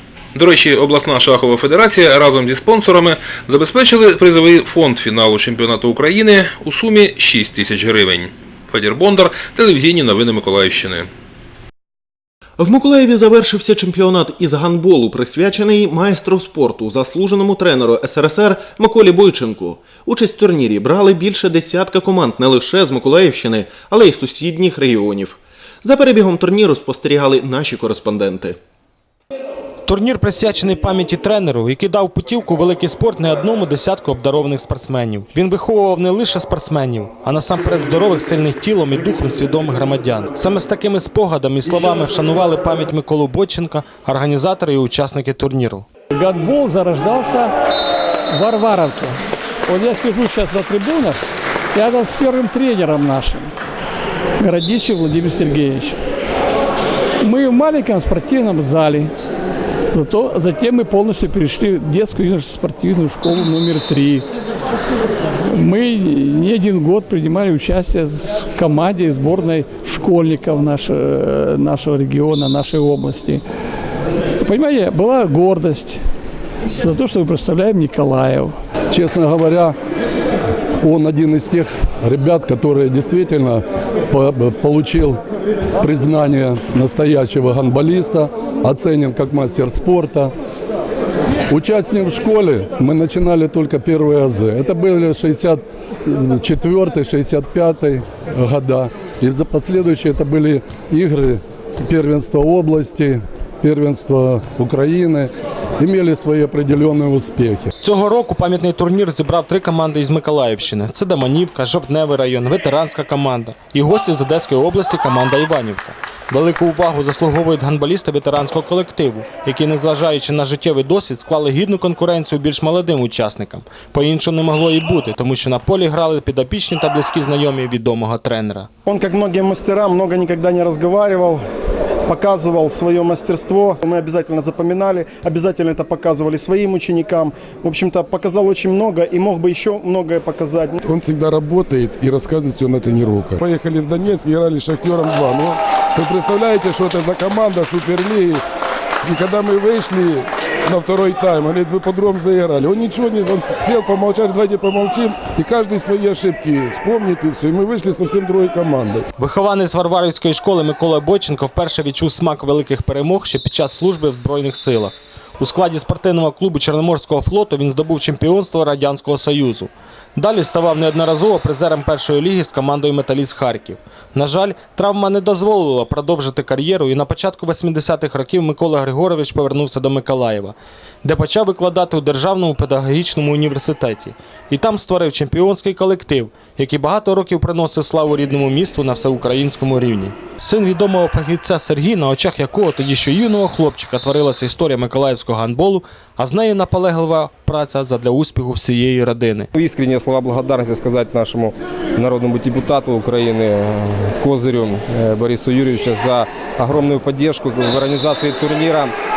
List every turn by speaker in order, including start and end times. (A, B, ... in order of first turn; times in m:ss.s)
0:00.4-0:11.1 A
0:12.6-0:28.6 B
0:29.9-0:45.9 C
0:46.1-0:47.5 D
0:48.3-0:51.2 D
0:51.7-0:53.5 D
0:54.4-0:56.0 D
0:57.2-0:59.2 D
0:59.9-1:04.3 D
1:05.4-1:13.4 D
1:14.4-1:16.0 D
1:16.8-1:18.6 D
1:18.9-1:19.7 E
1:20.8-1:25.2 E
1:25.8-1:30.3 E
1:31.5-1:47.7 E
1:47.8-2:08.7 C
2:08.9-2:11.4 F
2:12.1-2:20.8 F
2:20.8-2:28.4 G
2:29.0-2:39.1 G
2:39.2-3:19.5 C
3:19.5-3:28.9 H